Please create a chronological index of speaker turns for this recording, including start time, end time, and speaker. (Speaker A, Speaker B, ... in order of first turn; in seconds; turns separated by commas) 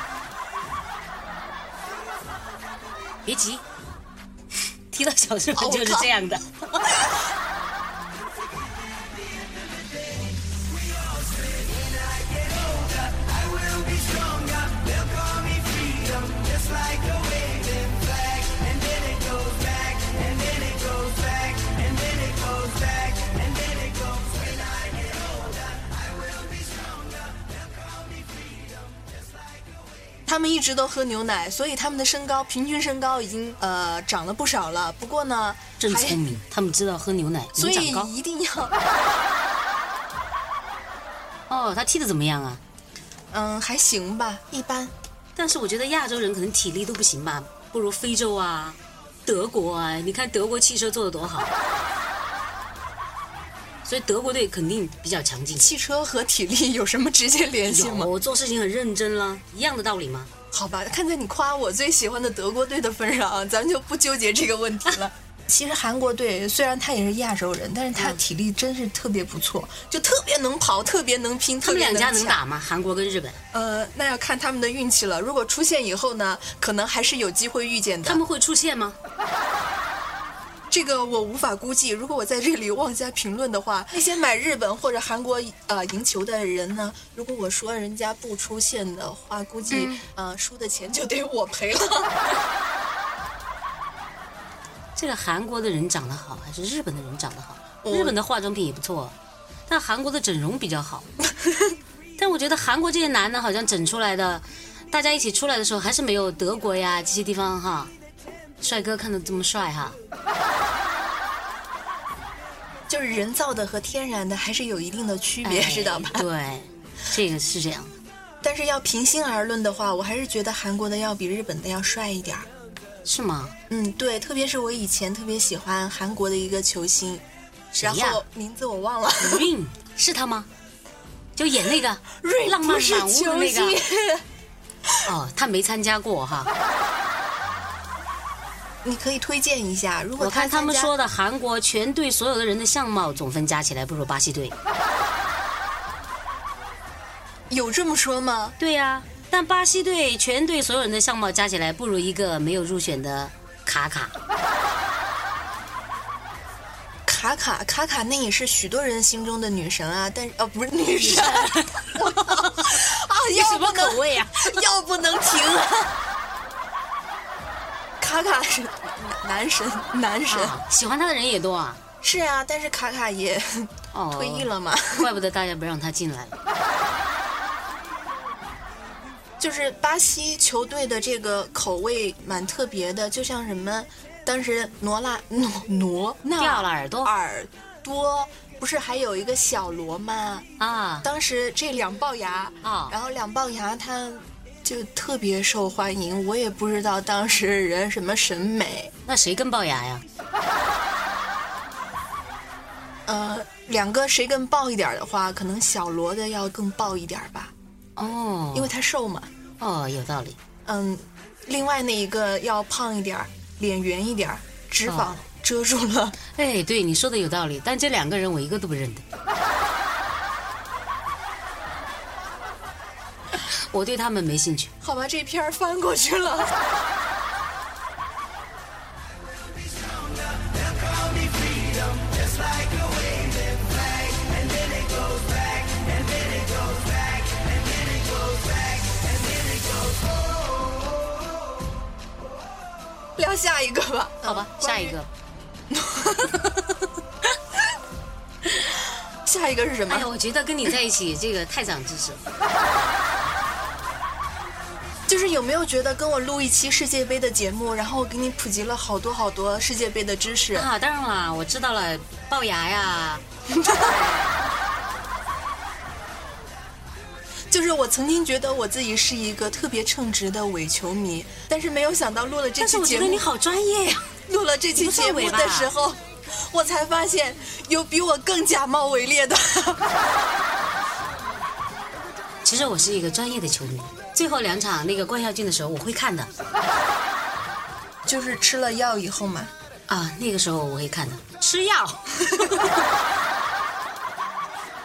Speaker A: 3.2-3.6, Speaker A: 4.9-7.0, Speaker B: 5.5-6.2, Speaker B: 30.2-36.2, Speaker A: 35.8-38.1, Speaker B: 37.5-38.7, Speaker A: 41.5-42.6, Speaker B: 43.3-44.9, Speaker A: 45.4-51.5, Speaker A: 53.8-55.7, Speaker B: 55.5-58.1, Speaker A: 57.7-60.3, Speaker B: 60.5-72.4, Speaker A: 68.0-68.2, Speaker A: 71.6-73.4, Speaker B: 73.5-78.2, Speaker A: 78.0-79.0, Speaker B: 80.7-92.1, Speaker A: 89.7-90.0, Speaker A: 94.9-99.1, Speaker B: 97.8-98.2, Speaker A: 99.7-101.1, Speaker A: 102.2-107.9, Speaker A: 108.6-110.0, Speaker B: 112.9-116.3, Speaker A: 115.4-117.9, Speaker B: 118.4-122.5, Speaker A: 123.0-123.5, Speaker B: 123.7-127.2, Speaker A: 127.7-128.2, Speaker B: 127.8-129.5, Speaker A: 129.2-130.5, Speaker A: 131.3-133.8, Speaker B: 132.2-134.2, Speaker A: 135.1-136.5, Speaker B: 138.8-140.9, Speaker A: 140.2-144.5, Speaker B: 147.5-148.6, Speaker A: 148.6-154.1, Speaker B: 157.1-166.0, Speaker A: 161.0-162.6, Speaker A: 163.3-164.6, Speaker B: 168.0-170.6, Speaker A: 170.3-171.8, Speaker B: 172.0-175.1, Speaker A: 173.9-176.3, Speaker B: 179.4-190.4, Speaker A: 186.4-187.1, Speaker A: 190.6-191.1, Speaker B: 191.0-198.9, Speaker A: 192.6-192.9, Speaker A: 199.1-200.0, Speaker B: 203.1-207.5, Speaker A: 208.0-208.7, Speaker B: 208.5-209.3, Speaker A: 209.6-210.4, Speaker B: 210.7-216.2, Speaker A: 214.8-215.2, Speaker A: 216.3-219.0, Speaker A: 223.5-224.7, Speaker B: 224.8-226.5, Speaker B: 243.2-245.0, Speaker A: 244.2-245.1, Speaker B: 245.7-246.5, Speaker B: 249.2-250.1, Speaker A: 249.9-252.2, Speaker B: 255.1-260.7, Speaker A: 260.5-263.2, Speaker B: 263.5-263.9, Speaker A: 263.8-264.4, Speaker B: 267.5-273.2, Speaker A: 272.6-274.1, Speaker B: 274.3-279.8, Speaker A: 274.7-275.7, Speaker A: 282.4-286.3, Speaker B: 288.1-289.5, Speaker A: 289.9-292.7